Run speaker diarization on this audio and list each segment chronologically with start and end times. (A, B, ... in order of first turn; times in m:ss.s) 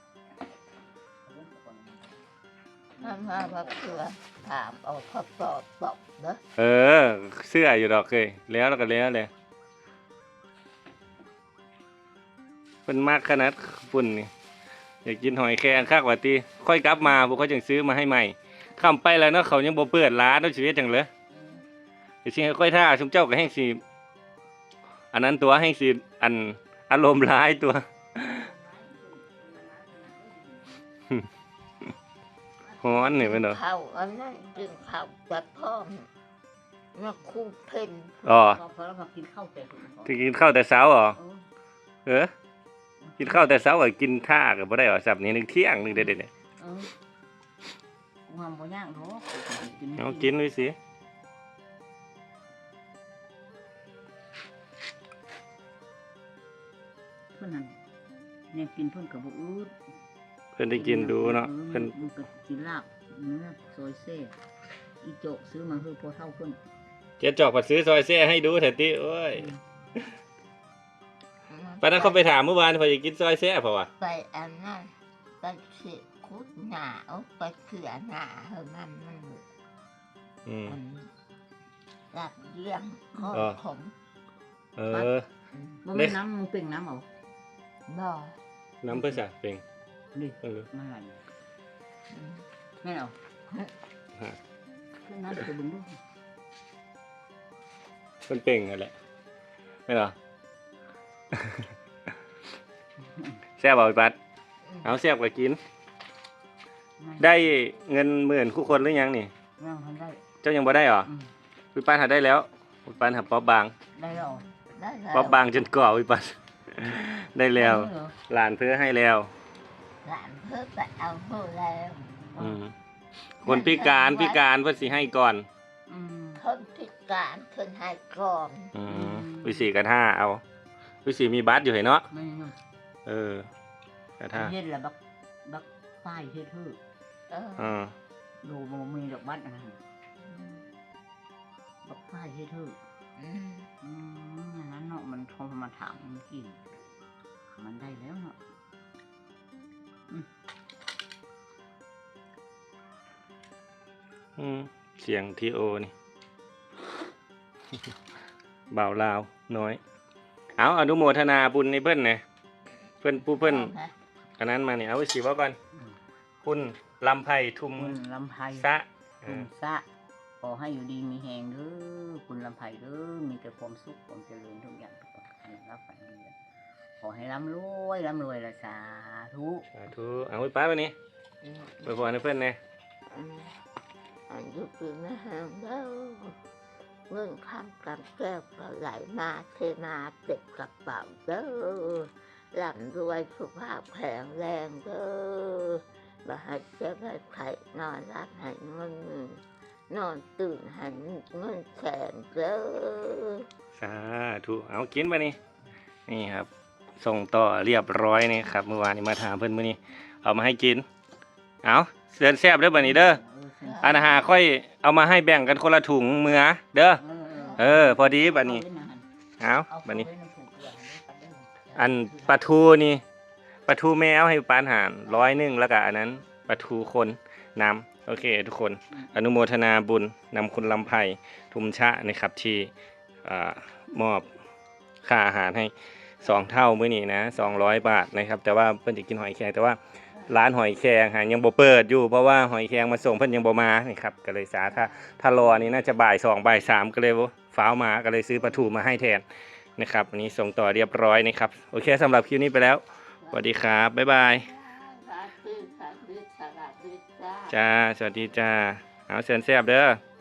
0:01.3-0:02.2 A
0:03.0-0:04.1 A
0:03.0-0:06.4 B
0:06.6-0:09.3 C
0:12.9-0:14.3 C
0:15.0-0:21.1 C
0:21.3-0:21.6 A
0:22.2-0:23.8 C
0:25.1-0:28.5 C
0:28.5-0:30.9 A
0:32.6-0:35.0 A
0:32.8-0:33.6 C
0:33.1-0:36.1 B
0:36.9-0:38.2 B
0:38.2-0:38.6 C
0:38.6-0:40.2 A
0:40.0-0:41.2 C
0:41.2-0:41.4 A
0:42.1-0:42.3 C
0:43.0-0:43.5 A
0:43.2-0:46.3 C
0:46.6-0:46.9 A
0:48.3-0:50.3 A
0:50.0-0:50.8 C
0:57.3-0:57.8 A
0:58.5-0:59.7 A
1:00.6-1:01.9 C
1:00.7-1:04.3 A
1:05.0-1:06.6 A
1:07.2-1:09.5 C
1:11.5-1:12.2 B
1:11.8-1:13.9 C
1:14.0-1:19.4 B
1:20.5-1:20.8 C
1:20.7-1:21.1 B
1:22.1-1:24.0 B
1:23.3-1:23.6 C
1:24.8-1:25.3 C
1:24.9-1:25.8 B
1:25.8-1:27.1 A
1:25.9-1:26.2 C
1:27.9-1:28.4 B
1:28.8-1:29.6 C
1:30.1-1:31.2 A
1:30.4-1:30.7 C
1:32.1-1:32.4 B
1:32.8-1:33.2 A
1:35.0-1:36.0 A
1:38.3-1:38.9 C
1:39.9-1:40.1 C
1:41.3-1:41.7 C
1:43.6-1:44.2 C
1:44.8-1:45.6 C
1:47.0-1:47.4 A
1:47.2-1:49.3 C
1:49.6-1:50.2 A
1:50.4-1:51.1 C
1:51.7-1:53.7 C
1:54.0-1:54.5 A
1:54.2-1:55.4 B
1:55.1-1:59.3 C
1:57.6-1:58.2 A
2:00.0-2:02.1 B
2:02.3-2:02.6 A
2:02.4-2:02.7 C
2:03.4-2:05.5 C
2:03.4-2:04.4 B
2:05.9-2:06.4 A
2:06.4-2:08.7 B
2:08.7-2:10.4 C
2:08.9-2:09.7 A
2:11.0-2:12.1 C
2:12.1-2:12.6 A
2:13.1-2:13.5 C
2:14.2-2:14.5 C
2:14.4-2:16.8 A
2:17.3-2:17.7 B
2:17.6-2:17.9 C
2:18.4-2:19.8 A
2:20.2-2:20.7 B
2:21.8-2:22.8 A
2:23.2-2:23.7 B
2:23.8-2:26.6 A
2:27.5-2:28.4 A
2:34.4-2:35.9 C
2:38.7-2:39.8 C
2:40.6-2:42.2 C
2:43.0-2:43.7 C
2:43.4-2:44.0 B
2:44.4-2:45.6 C
2:46.4-2:48.0 C
2:47.8-2:48.7 A
2:48.5-2:49.5 C
2:49.3-2:49.8 A
2:50.4-2:56.4 A
2:57.0-2:59.7 A
2:59.7-3:01.0 C
3:01.4-3:01.9 B
3:01.8-3:02.6 C
3:03.1-3:03.5 B
3:04.3-3:06.4 B
3:07.1-3:23.5 B
3:23.8-3:25.4 C
3:26.1-3:30.8 C
3:31.6-3:33.2 C
3:32.7-3:33.9 A
3:33.7-3:34.2 B
3:33.8-3:37.0 C
3:37.0-3:39.1 A
3:37.6-3:38.6 C
3:39.4-3:40.1 C
3:39.7-3:42.5 A
3:41.8-3:43.0 C
3:43.7-3:52.7 C
3:53.2-3:54.3 C
3:55.0-4:09.2 C
4:04.7-4:05.6 B
4:09.8-4:14.5 C
4:14.4-4:17.5 B
4:17.5-4:20.0 C